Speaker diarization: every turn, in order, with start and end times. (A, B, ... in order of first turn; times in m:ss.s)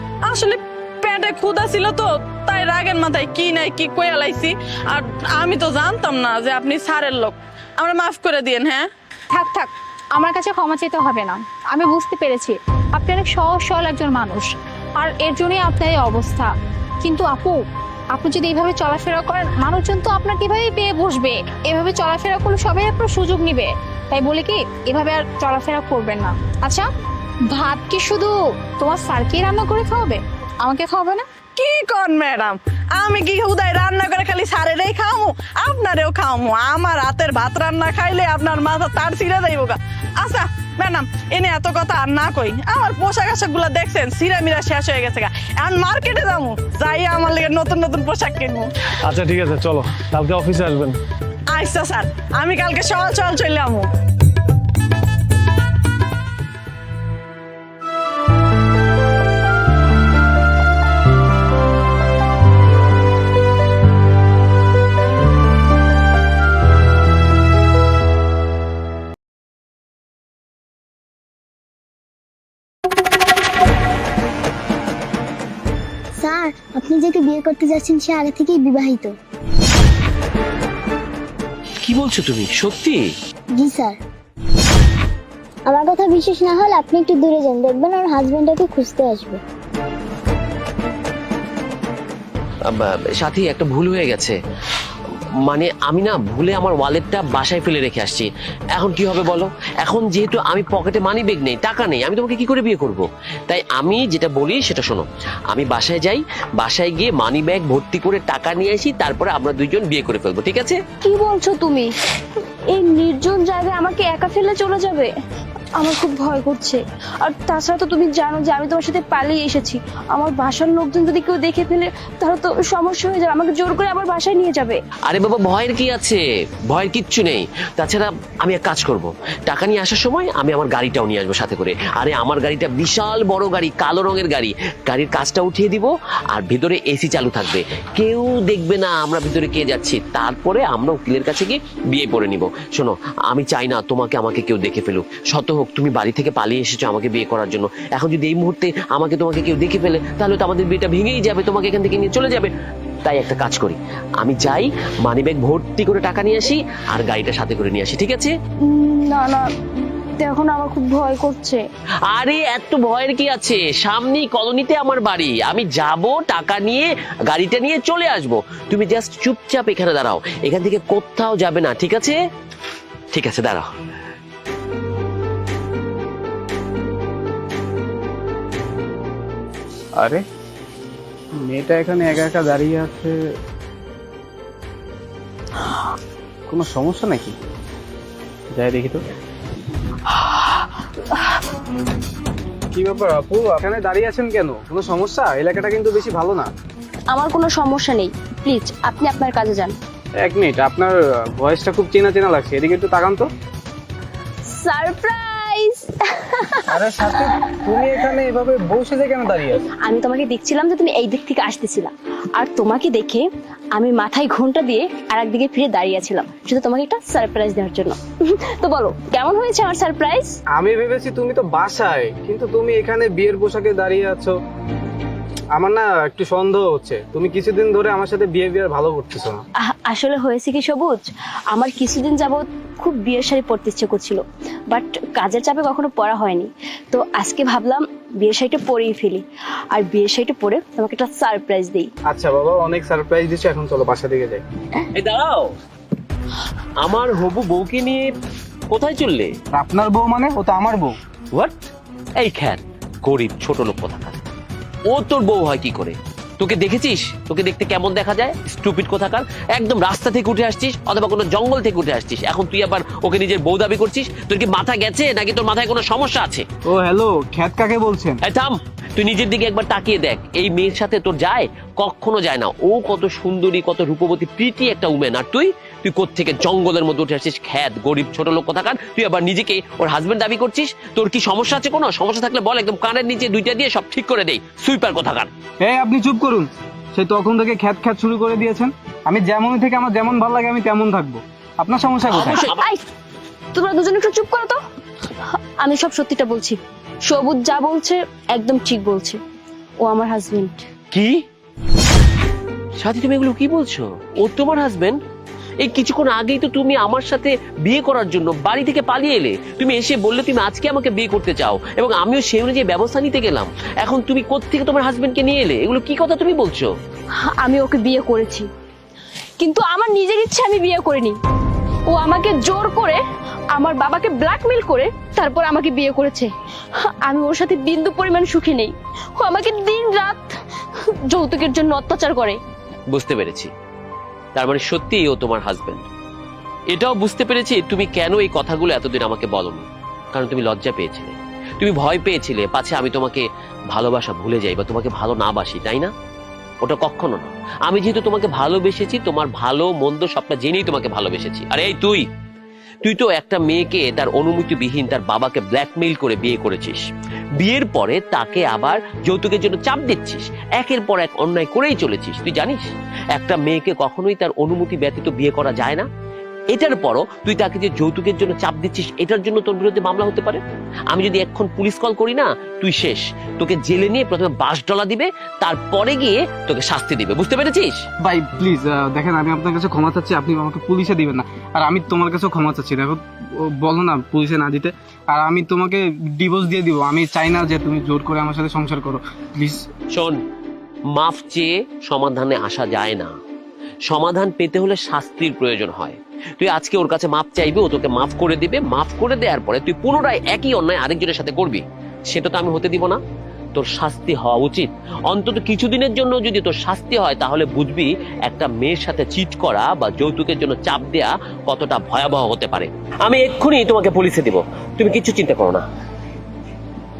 0:00.2-0:08.9 A
0:09.3-0:26.9 B
0:27.5-0:31.2 B
0:31.6-0:48.7 A
0:49.0-0:51.0 C
0:51.5-0:53.9 A
1:16.2-1:19.2 D
1:21.8-1:23.0 E
1:23.5-1:24.0 D
1:25.6-1:29.4 D
1:32.7-1:34.4 E
1:35.4-1:50.8 E
1:51.0-1:51.9 F
1:52.7-1:55.1 F
1:55.8-2:04.8 F
2:05.1-2:32.5 E
2:33.0-2:38.3 E
2:38.6-2:39.4 F
2:40.2-2:41.6 F
2:42.1-2:52.2 E
2:53.1-2:53.7 E
3:01.4-3:03.2 G
3:06.5-3:07.4 G
3:08.5-3:09.0 G
3:12.7-3:16.5 G
3:17.1-3:19.8 F
3:20.2-3:23.3 G
3:24.5-3:26.6 F
3:26.7-3:29.6 G
3:29.8-3:33.2 F
3:33.8-3:38.0 F
3:38.6-3:40.3 F
3:40.6-3:44.4 G
3:45.6-3:49.4 G
3:49.8-4:01.9 F
4:02.1-4:04.4 G
4:05.0-4:05.5 E
4:06.8-4:08.0 E
4:08.7-4:09.3 E
4:09.5-4:11.0 G
4:12.2-4:14.2 E
4:14.9-4:26.4 E
4:26.6-4:28.2 G
4:28.2-4:45.3 E
4:45.6-4:52.5 G
4:52.1-4:52.7 E
4:52.5-4:52.8 F
4:53.5-4:54.6 F
4:55.6-4:59.2 F
4:59.8-5:00.7 F
5:00.9-5:01.2 E
5:02.8-5:05.0 E
5:05.6-5:16.7 E
5:17.4-5:18.5 F
5:19.4-5:21.2 F
5:21.9-5:23.0 F
5:23.5-5:26.3 F
5:26.8-5:30.3 F
5:31.1-5:32.4 F
5:32.9-5:33.5 E
5:34.4-5:35.8 E
5:36.7-5:45.9 E
5:46.6-5:52.0 E
5:52.8-5:56.8 E
5:57.4-6:05.9 E
6:06.5-6:17.8 E
6:18.0-6:29.6 G
6:29.9-6:30.2 E
6:30.9-6:33.1 E
6:33.9-6:43.0 E
6:43.5-6:55.6 E